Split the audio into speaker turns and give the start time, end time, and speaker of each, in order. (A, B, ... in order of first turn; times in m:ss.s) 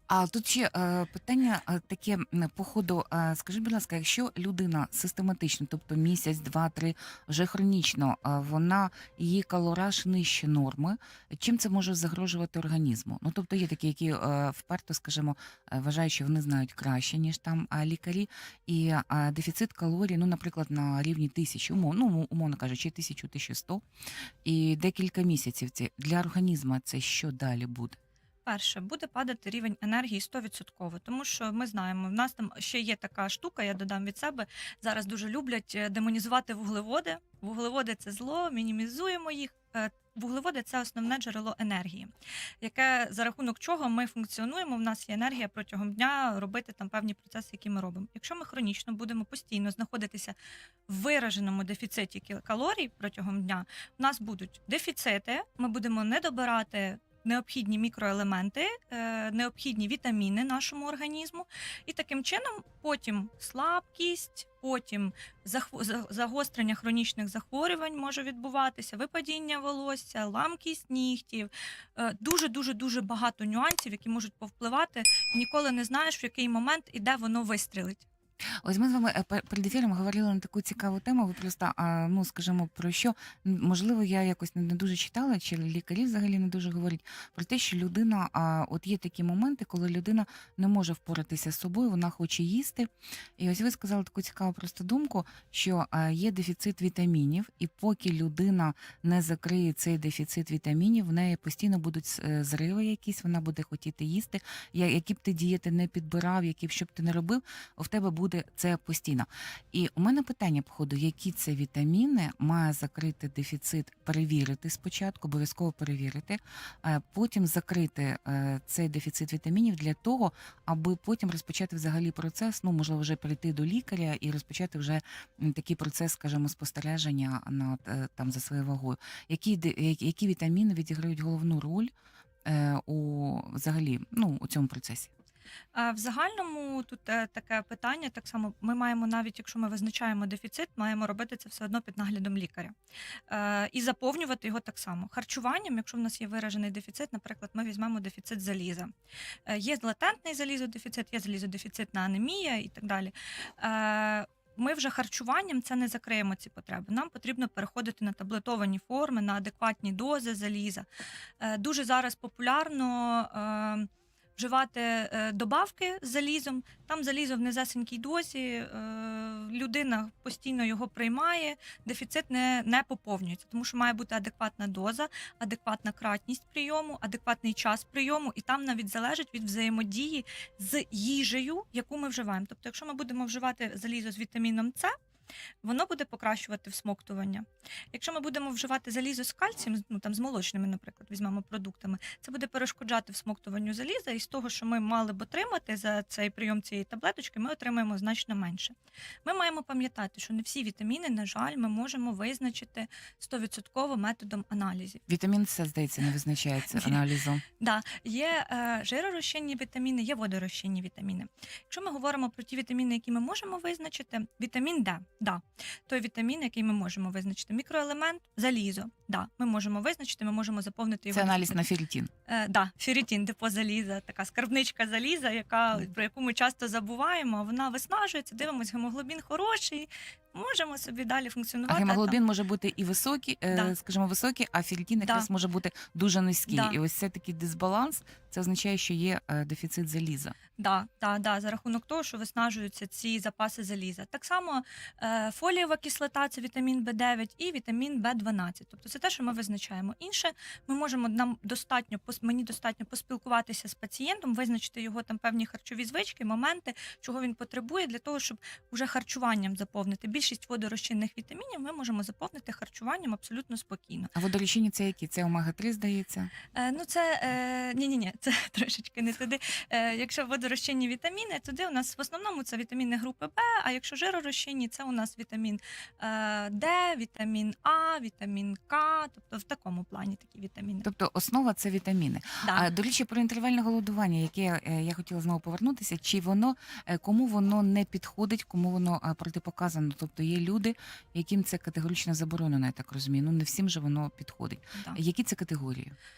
0:00.1-0:23.8 A
0:24.4-0:28.0 A
0:28.4-0:50.4 B
0:50.9-1:18.0 B
1:18.6-2:11.9 A
2:12.4-2:15.1 A
2:15.7-2:22.7 B
2:23.3-2:28.9 B
2:29.5-2:40.8 B
2:41.4-3:04.9 B
3:05.6-3:25.0 B
3:25.1-3:27.4 A
3:26.7-3:27.0 B
3:27.6-3:41.6 B
3:41.1-3:42.1 A
3:42.3-3:52.2 B
3:51.7-4:00.3 A
3:55.0-3:55.3 B
3:56.5-3:56.8 B
4:00.6-4:24.1 B
4:24.1-4:26.3 A
4:26.5-4:40.9 B
4:40.8-4:55.9 A
4:42.4-4:42.7 B